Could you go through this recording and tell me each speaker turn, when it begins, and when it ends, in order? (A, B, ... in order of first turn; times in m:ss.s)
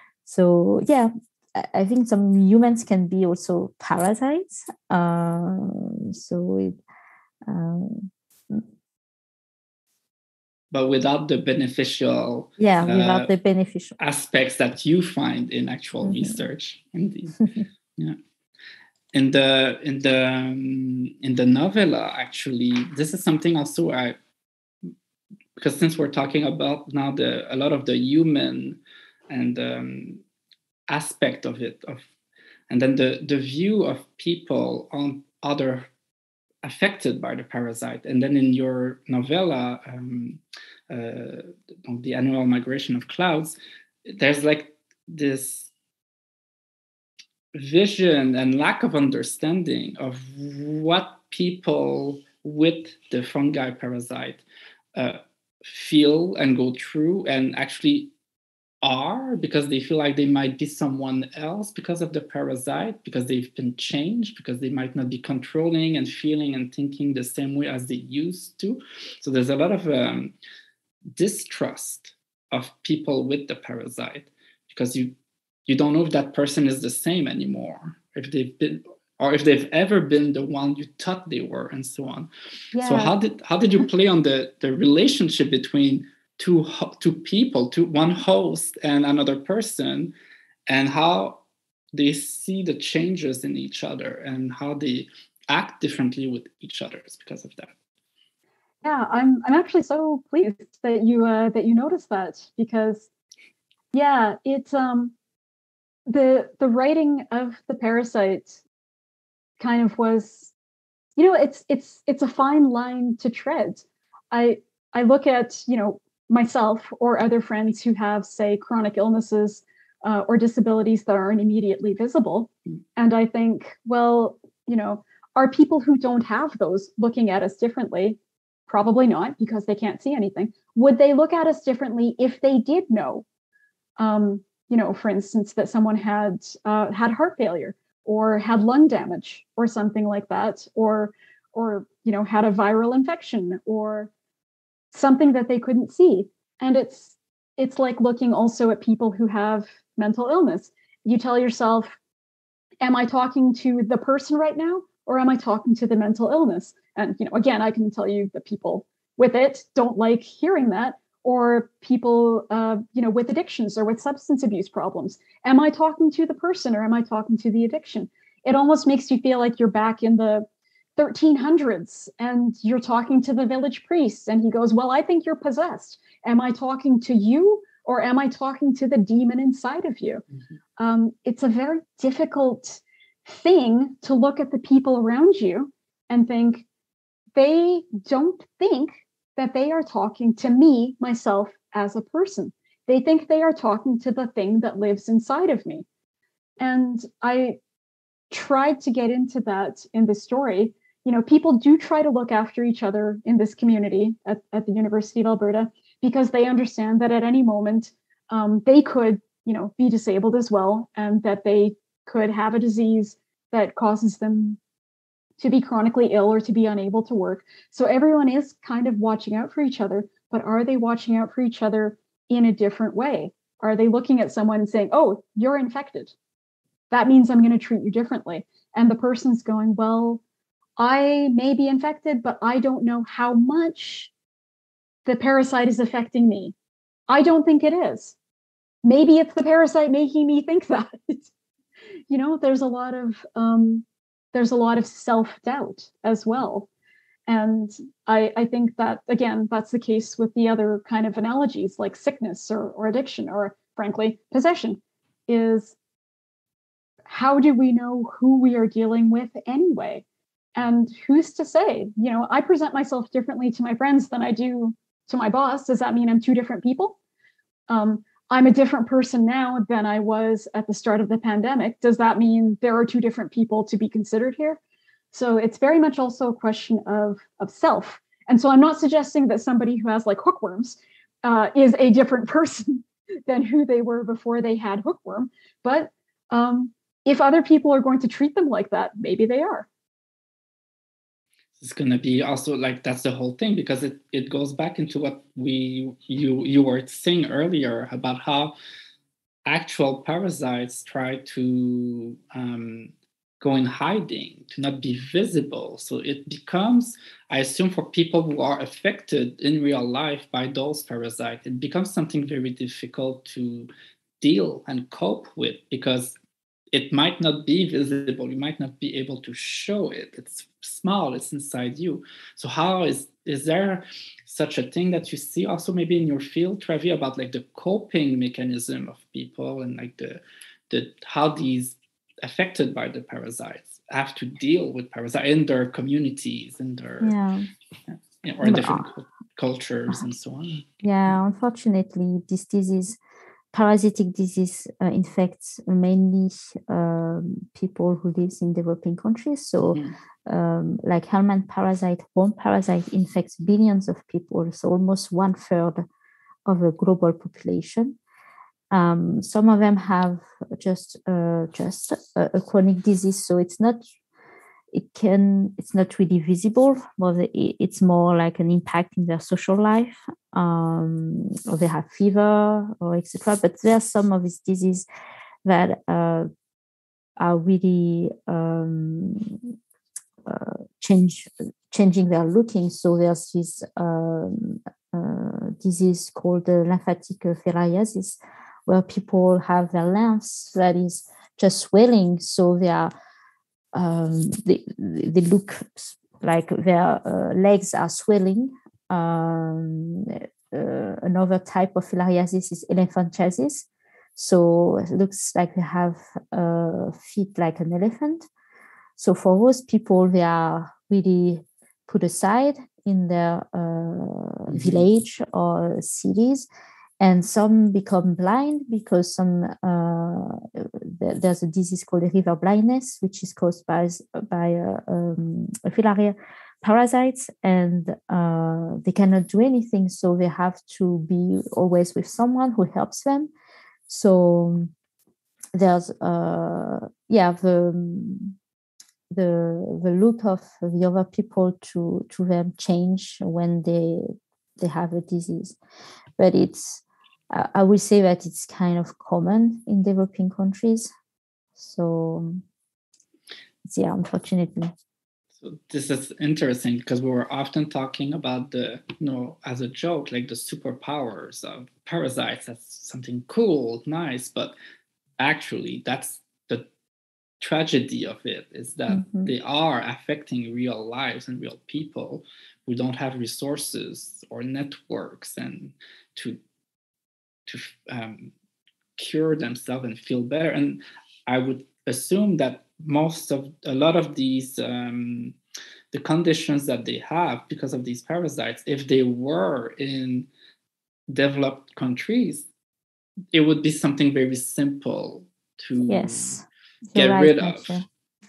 0:00.3-0:06.8 A
0:07.4-0:08.6 A
0:10.7-0:13.3 B
0:12.6-0:14.0 A
0:14.0-0:18.2 B
0:16.0-0:16.4 A
0:19.1-0:24.2 B
0:25.6-0:30.2 B
0:30.9-0:32.0 B
0:32.7-0:35.9 B
0:36.6-0:45.7 B
0:47.5-0:54.4 B
0:55.0-0:58.1 B
0:58.8-1:10.3 B
1:11.2-1:15.2 B
1:15.7-1:22.3 B
1:22.7-1:23.1 C
1:22.8-1:30.1 B
1:30.7-1:31.4 B
1:31.9-1:37.7 B
1:38.8-1:43.1 C
1:43.9-1:45.2 C
1:46.1-1:48.6 C
1:49.6-1:50.5 C
1:51.2-2:13.2 C
2:14.0-2:24.1 C
2:24.9-2:32.0 C
2:32.8-3:00.2 C
3:00.8-3:06.6 C
3:07.4-3:15.8 C
3:16.6-3:17.6 C
3:18.3-3:34.6 C
3:35.4-3:46.1 C
3:46.9-3:50.2 C
3:50.8-3:54.1 C
3:55.1-3:56.5 C
3:57.1-3:58.2 C
3:58.8-4:01.3 C
4:02.1-4:06.7 C
4:07.3-4:15.8 C
4:17.1-4:20.0 C
4:20.6-4:27.0 C
4:27.7-4:34.6 C
4:35.1-4:49.7 C
4:51.6-4:58.6 B
4:59.5-5:13.7 B
5:14.2-5:16.2 B
5:16.7-5:37.2 B
5:37.0-5:37.5 A
5:37.9-5:40.7 B
5:38.4-5:38.9 A
5:40.8-5:43.0 A
5:43.5-5:55.8 A
5:56.5-5:58.0 A
5:58.7-6:03.8 A
6:04.7-6:14.9 A
6:15.4-6:16.3 A
6:17.2-6:19.5 A
6:20.2-6:32.9 A
6:33.7-6:48.2 A
6:49.0-6:56.5 A
6:54.5-6:54.8 B
6:57.0-7:13.3 A
7:13.9-7:14.7 A
7:15.5-7:18.4 A
7:19.1-7:25.6 A
7:26.2-7:30.9 A
7:31.6-7:32.4 A
7:33.6-7:34.7 A
7:35.4-7:44.6 B
7:45.2-7:46.7 B
7:47.4-7:56.4 B
7:48.9-7:49.3 A
7:57.5-7:58.3 B
7:59.0-8:05.4 B
8:05.9-8:10.3 B
8:11.1-8:12.5 B
8:13.3-8:16.4 B
8:15.9-8:17.8 A
8:17.0-8:17.8 B